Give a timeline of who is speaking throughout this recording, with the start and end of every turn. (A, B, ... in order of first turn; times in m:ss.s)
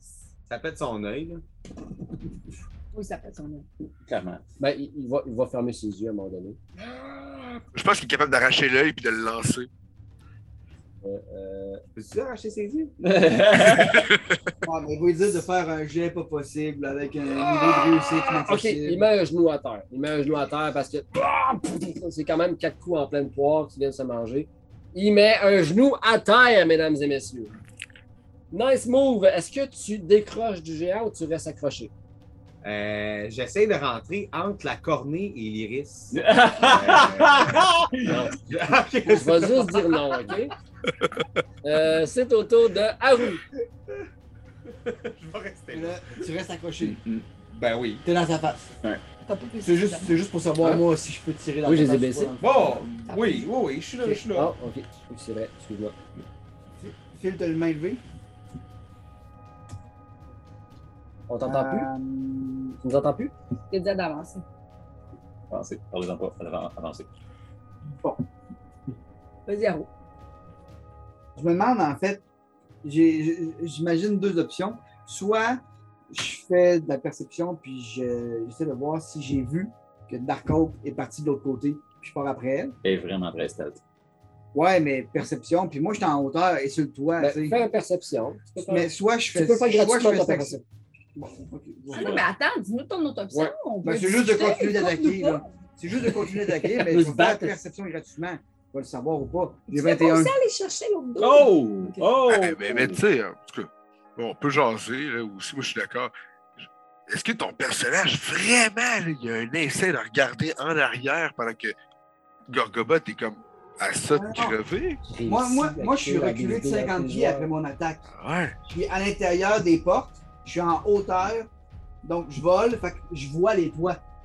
0:00.5-0:01.4 A
0:02.9-0:03.7 B
0:04.1-0:04.4 C
0:04.6-0:06.6 D
0:07.0-0:07.3 C
0:07.7-0:09.7 E
0:11.0-0:11.8 D
0:12.0-0:12.9 A
0:13.0-0:14.1 C
0:14.6-0:19.0 F
0:18.4-0:27.5 D
0:28.5-0:31.9 D
0:32.6-0:37.7 A
0:36.1-0:38.2 C
0:38.0-0:38.3 D
0:38.3-0:40.0 A
0:39.1-0:40.5 D
0:41.6-0:43.4 D
0:44.7-0:46.3 A
0:45.7-0:47.0 F
0:46.8-0:47.2 C
0:47.5-0:48.0 A
0:48.0-0:48.7 F
0:49.2-0:50.2 B
0:49.6-0:53.0 F
0:51.6-0:52.3 D
0:52.4-0:54.5 A
0:53.0-0:53.5 B
0:54.0-0:55.9 D
0:56.8-0:58.0 F
1:01.3-1:01.9 D
1:01.4-1:02.8 F
1:02.8-1:03.3 D
1:03.7-1:04.4 B
1:05.5-1:07.1 C
1:09.5-1:09.9 B
1:11.4-1:12.2 F
1:12.8-1:22.8 F
1:22.8-1:23.8 C
1:24.5-1:27.6 F
1:27.2-1:30.6 D
1:28.7-1:30.6 F
1:31.2-1:32.2 F
1:31.9-1:35.4 B
1:31.9-1:32.3 C
1:33.8-1:40.3 F
1:36.8-1:37.6 D
1:39.7-1:42.2 B
1:41.2-1:43.0 C
1:42.3-1:46.1 E
1:47.1-1:51.7 E
1:52.5-1:55.0 E
1:54.1-1:54.5 F
1:55.1-1:57.5 D
1:55.2-1:58.1 F
1:58.1-1:58.5 E
1:58.7-2:01.5 F
2:02.0-2:04.0 F